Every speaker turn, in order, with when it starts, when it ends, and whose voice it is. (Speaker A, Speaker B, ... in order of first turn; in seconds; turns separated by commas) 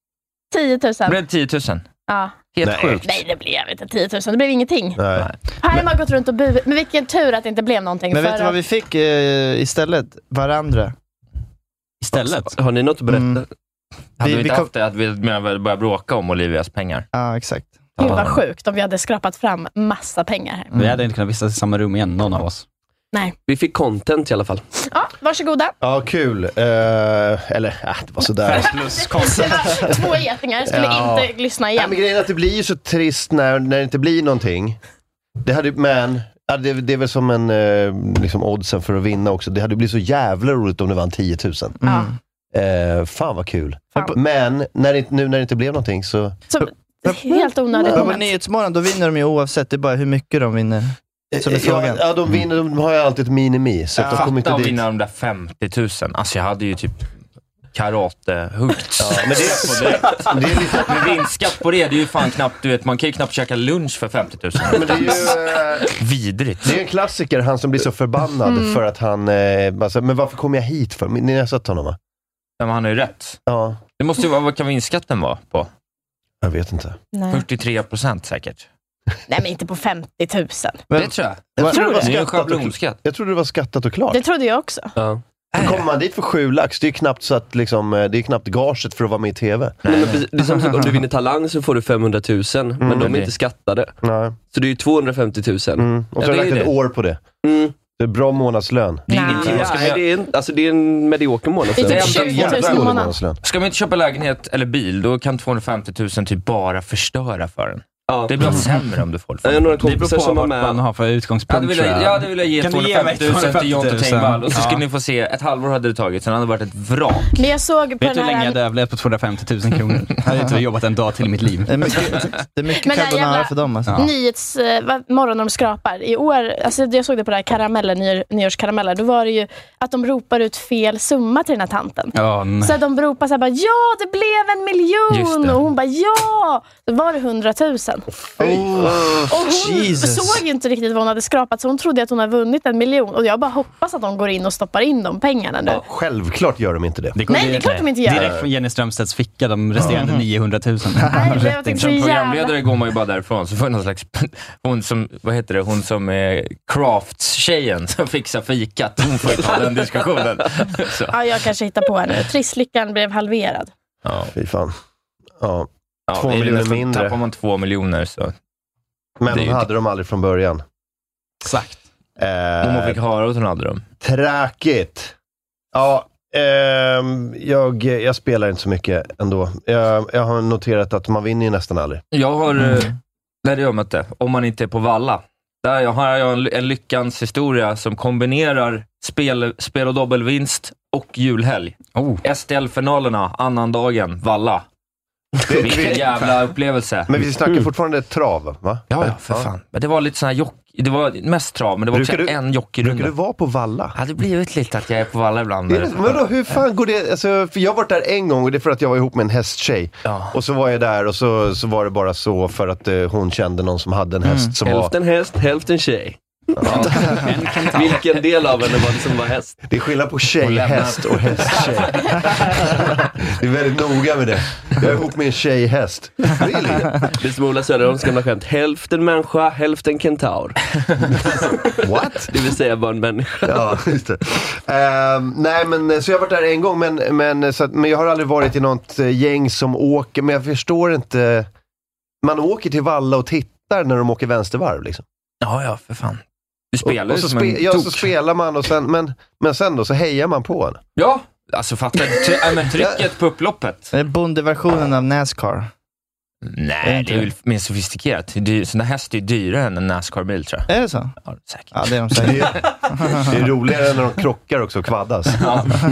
Speaker A: 0.5-1.2, Speaker B: 1.1-1.8, Speaker A: 2.1-2.3, Speaker B: 2.5-3.2, Speaker C: 2.6-3.0, Speaker A: 3.0-5.0, Speaker C: 5.0-5.3, Speaker A: 5.6-8.6, Speaker D: 8.1-10.9, Speaker E: 12.0-12.6, Speaker F: 12.5-13.4, Speaker D: 13.1-13.4, Speaker D: 14.2-14.7, Speaker B: 14.2-17.1, Speaker D: 17.1-18.3, Speaker B: 18.0-18.3, Speaker A: 18.0-20.7, Speaker E: 20.7-22.6, Speaker F: 23.5-24.6, Speaker A: 24.9-25.7, Speaker C: 25.8-28.8, Speaker E: 28.6-29.4, Speaker A: 28.9-31.9, Speaker C: 30.6-34.8, Speaker C: 35.4-41.8, Speaker D: 41.8-42.1, Speaker A: 41.8-42.1, Speaker C: 42.5-46.4, Speaker A: 46.5-48.3, Speaker D: 46.6-52.0, Speaker C: 51.3-54.8, Speaker D: 54.0-54.3, Speaker B: 54.1-57.1, Speaker B: 57.7-65.4, Speaker C: 59.0-61.2, Speaker C: 64.7-65.9, Speaker B: 65.9-66.8, Speaker C: 66.6-72.0, Speaker A: 68.5-68.8, Speaker B: 72.6-73.4, Speaker C: 73.5-73.8, Speaker B: 74.0-75.7, Speaker C: 76.4-77.0, Speaker A: 77.1-77.4, Speaker B: 77.3-78.7, Speaker A: 79.3-80.8, Speaker D: 80.9-82.0, Speaker B: 80.9-83.0, Speaker C: 81.6-84.2, Speaker A: 84.1-84.9, Speaker F: 85.0-85.2, Speaker B: 85.5-85.8, Speaker C: 85.5-89.8, Speaker B: 89.8-90.2, Speaker F: 89.8-93.9, Speaker C: 92.8-93.2, Speaker B: 92.9-93.3, Speaker C: 94.0-94.4, Speaker F: 94.5-95.9, Speaker C: 95.8-97.2, Speaker B: 96.2-96.7, Speaker F: 97.4-97.7, Speaker C: 98.0-99.8, Speaker B: 99.1-100.0, Speaker A: 99.1-99.4, Speaker F: 99.2-102.1, Speaker A: 101.8-103.1, Speaker B: 101.8-110.0, Speaker C: 101.9-103.4, Speaker F: 108.1-108.6, Speaker F: 109.4-110.8, Speaker E: 109.8-114.8, Speaker B: 111.5-117.4, Speaker A: 117.3-118.6, Speaker E: 118.0-122.2, Speaker D: 121.7-124.0, Speaker A: 122.8-138.1, Speaker E: 132.1-132.8, Speaker B: 135.1-135.6, Speaker C: 138.3-139.2, Speaker D: 138.4-140.4, Speaker A: 139.3-145.8, Speaker C: 145.6-147.2, Speaker E: 147.1-152.0, Speaker A: 147.3-148.3, Speaker C: 148.1-148.5, Speaker D: 149.8-150.2, Speaker A: 151.1-152.5, Speaker B: 151.7-161.2, Speaker A: 161.1-163.7, Speaker B: 164.0-164.3, Speaker C: 164.3-164.8, Speaker C: 165.4-167.2, Speaker B: 166.1-168.3, Speaker C: 169.2-170.6, Speaker B: 169.3-169.7, Speaker E: 171.4-171.8, Speaker C: 172.2-173.0, Speaker B: 172.6-173.8, Speaker C: 174.0-175.1, Speaker C: 175.7-182.0, Speaker B: 182.1-182.9, Speaker B: 183.4-194.6, Speaker C: 195.5-196.2, Speaker B: 195.6-197.1, Speaker C: 197.1-199.5, Speaker B: 198.9-203.1, Speaker C: 201.9-203.9, Speaker B: 203.9-206.2, Speaker C: 205.7-214.9, Speaker B: 210.1-210.3, Speaker D: 214.2-214.5, Speaker F: 214.6-217.1, Speaker C: 216.6-217.2, Speaker E: 216.8-218.1, Speaker F: 217.7-219.6, Speaker C: 219.7-226.9, Speaker B: 220.4-222.5, Speaker F: 227.1-231.7, Speaker C: 231.8-232.3, Speaker F: 232.3-233.7, Speaker C: 233.4-241.5, Speaker C: 242.2-245.0, Speaker B: 245.4-248.1, Speaker C: 246.8-250.8, Speaker B: 251.0-253.9, Speaker C: 252.7-253.0, Speaker D: 253.9-255.7, Speaker B: 256.4-260.7, Speaker D: 256.8-257.3, Speaker D: 260.7-261.1, Speaker B: 261.2-262.4, Speaker D: 261.7-263.3, Speaker C: 262.2-265.5, Speaker B: 265.4-265.8